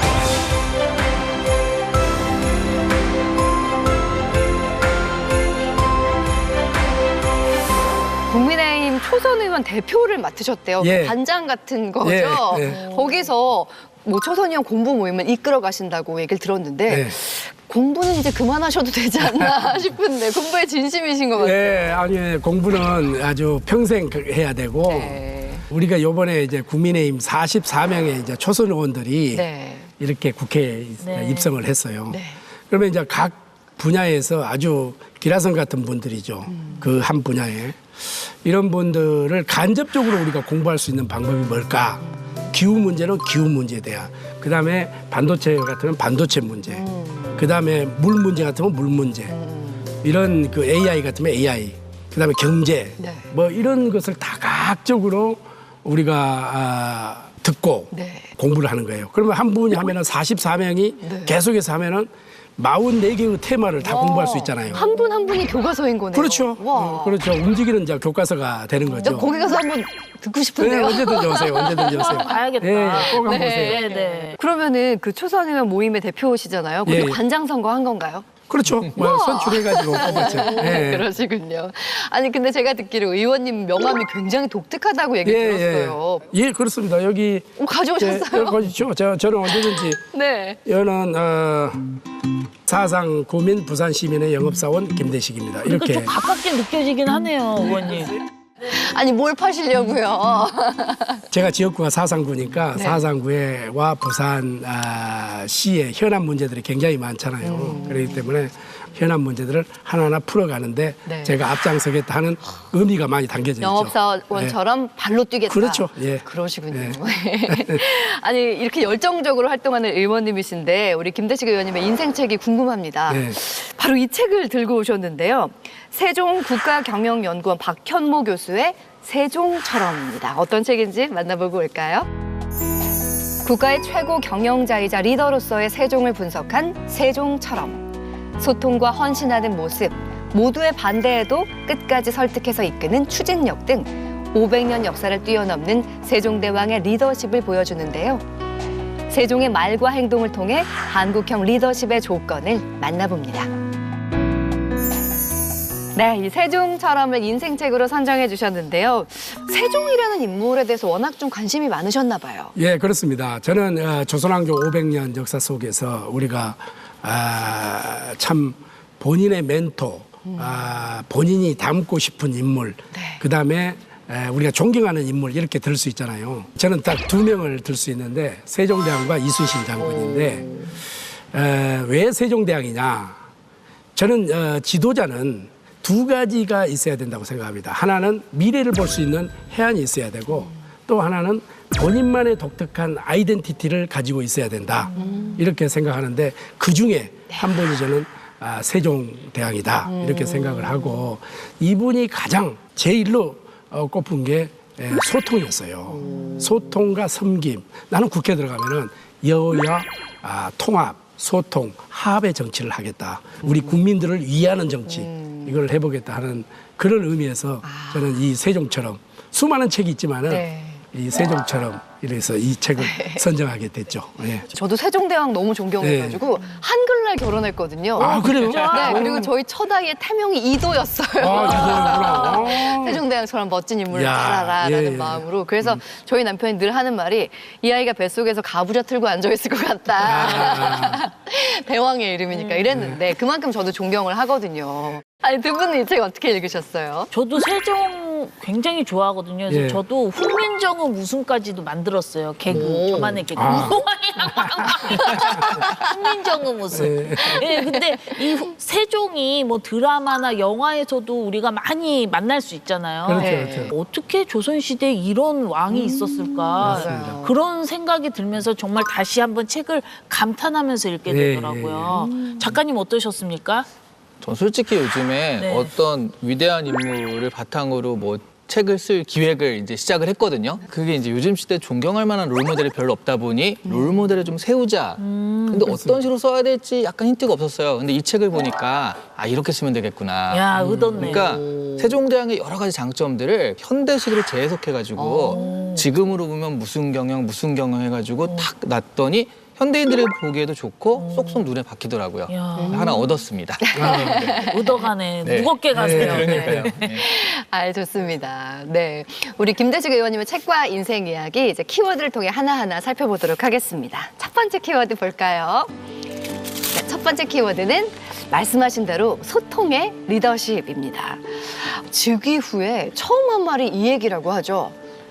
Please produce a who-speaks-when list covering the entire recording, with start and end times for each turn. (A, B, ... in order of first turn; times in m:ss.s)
0:08.3-0:21.8 A
0:10.8-0:11.2 B
0:12.0-0:12.8 B
0:12.6-0:13.3 C
0:16.9-0:17.1 B
0:21.4-0:29.4 B
0:24.8-0:25.6 A
0:29.3-0:29.9 A
0:30.0-0:46.8 B
0:31.0-0:31.5 C
0:32.1-0:32.4 A
0:36.5-0:36.9 A
0:42.0-0:42.5 A
0:46.7-0:47.4 A
0:47.4-0:49.3 B
0:49.3-0:49.9 A
0:50.0-1:04.9 B
0:53.0-0:53.3 A
0:57.9-0:58.3 A
1:01.0-1:01.4 A
1:03.8-1:07.2 A
1:06.1-1:09.3 B
1:09.0-1:09.6 C
1:09.0-1:12.3 A
1:10.6-1:13.8 B
1:11.8-1:14.4 C
1:13.0-1:18.3 A
1:16.8-1:17.2 B
1:18.5-1:21.1 B
1:18.9-1:26.2 A
1:20.2-1:20.8 C
1:25.2-1:30.0 B
1:27.6-1:28.7 A
1:29.5-1:30.6 A
1:30.6-1:31.9 B
1:32.6-1:36.1 B
1:35.6-1:38.1 C
1:37.6-1:38.1 A
1:38.6-1:41.3 A
1:41.3-1:54.6 B
1:42.7-1:43.0 A
1:47.4-1:48.2 A
1:51.0-1:51.4 A
1:53.6-2:12.1 A
1:55.5-1:57.8 B
2:03.1-2:03.4 B
2:13.4-2:17.8 A
2:18.4-2:28.2 A
2:29.1-2:33.5 A
2:35.9-2:42.5 A
2:42.6-3:00.5 B
2:50.2-2:50.7 A
2:52.9-2:53.2 A
2:59.8-3:00.8 A
3:01.3-3:03.2 B
3:03.9-3:44.4 B
3:15.0-3:15.4 A
3:19.8-3:21.1 A
3:25.9-3:26.8 A
3:26.0-3:26.4 C
3:33.4-3:33.8 A
3:34.9-3:35.6 A
3:37.6-3:38.1 A
3:40.3-3:40.8 A
3:42.8-3:43.2 A
3:44.5-4:07.1 A
3:45.8-3:46.2 B
3:48.0-3:49.3 B
3:48.0-3:49.3 C
3:51.2-3:53.0 B
3:51.3-3:52.3 C
3:53.9-3:55.8 B
4:00.0-4:01.0 B
4:02.3-4:02.6 C
4:02.7-4:03.0 B
4:07.1-4:33.7 C
4:09.5-4:09.8 B
4:12.5-4:15.6 B
4:12.5-4:13.7 A
4:14.9-4:15.8 A
4:16.7-4:17.4 B
4:17.3-4:18.2 A
4:23.0-4:23.7 B
4:23.2-4:23.7 A
4:25.7-4:27.4 A
4:26.6-4:27.2 B
4:31.1-4:32.0 B
4:31.9-4:32.5 A
4:34.2-5:04.5 D
4:35.4-4:35.7 C
4:43.6-4:44.3 A
4:45.0-4:45.8 C
4:45.6-4:46.0 B
4:50.3-4:51.3 C
4:50.6-4:51.0 B
4:51.0-4:52.0 A
4:55.0-4:55.5 A
4:55.3-4:55.8 C
5:01.0-5:01.4 C
5:02.3-5:02.9 C
5:02.6-5:03.1 A
5:03.6-5:04.9 A
5:03.7-5:04.4 B
5:04.4-5:06.9 C
5:05.2-5:07.0 D
5:05.7-5:06.7 B
5:06.8-5:15.7 A
5:16.7-5:24.7 A